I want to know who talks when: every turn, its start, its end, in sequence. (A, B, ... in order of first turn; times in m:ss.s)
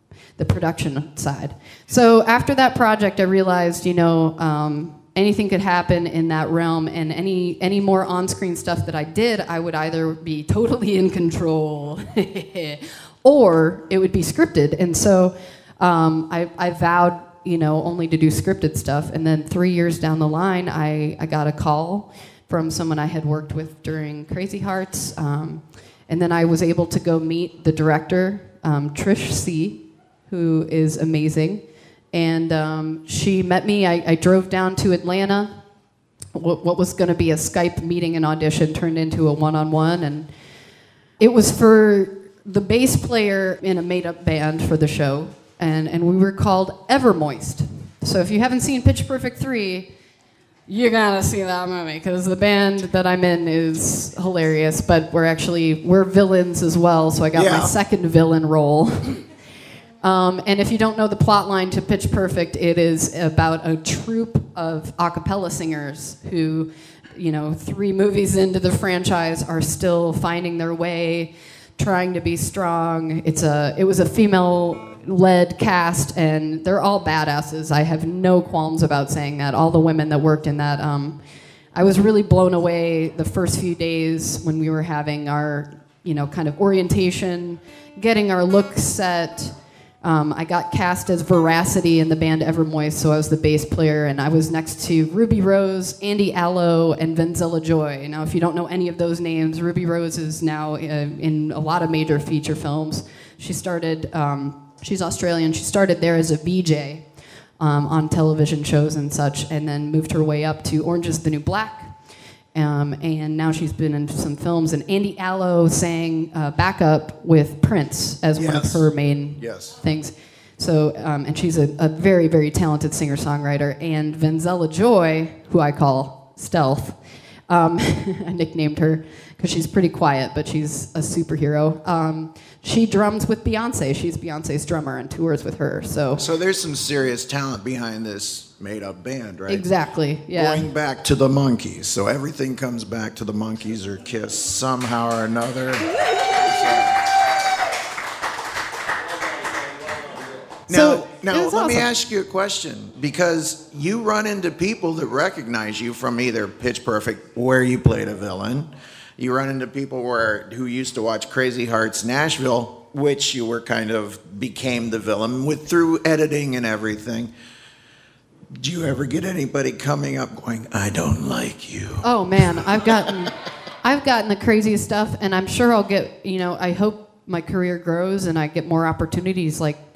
0:00.4-0:35.6 A
0:36.3-0:40.3 A
0:41.2-0:49.9 A
0:50.7-0:59.2 A
0:57.3-0:57.7 B
1:00.0-1:21.2 A
1:21.7-1:47.0 A
1:47.6-1:52.0 A
1:52.5-2:07.0 A
1:58.3-1:59.8 B
2:07.5-2:16.2 A
2:16.2-2:19.7 B
2:19.5-2:20.7 A
2:20.3-2:25.9 B
2:26.4-2:26.9 B
2:30.7-2:47.3 B
2:30.7-2:31.9 A
2:48.5-2:53.1 B
2:52.0-2:59.8 A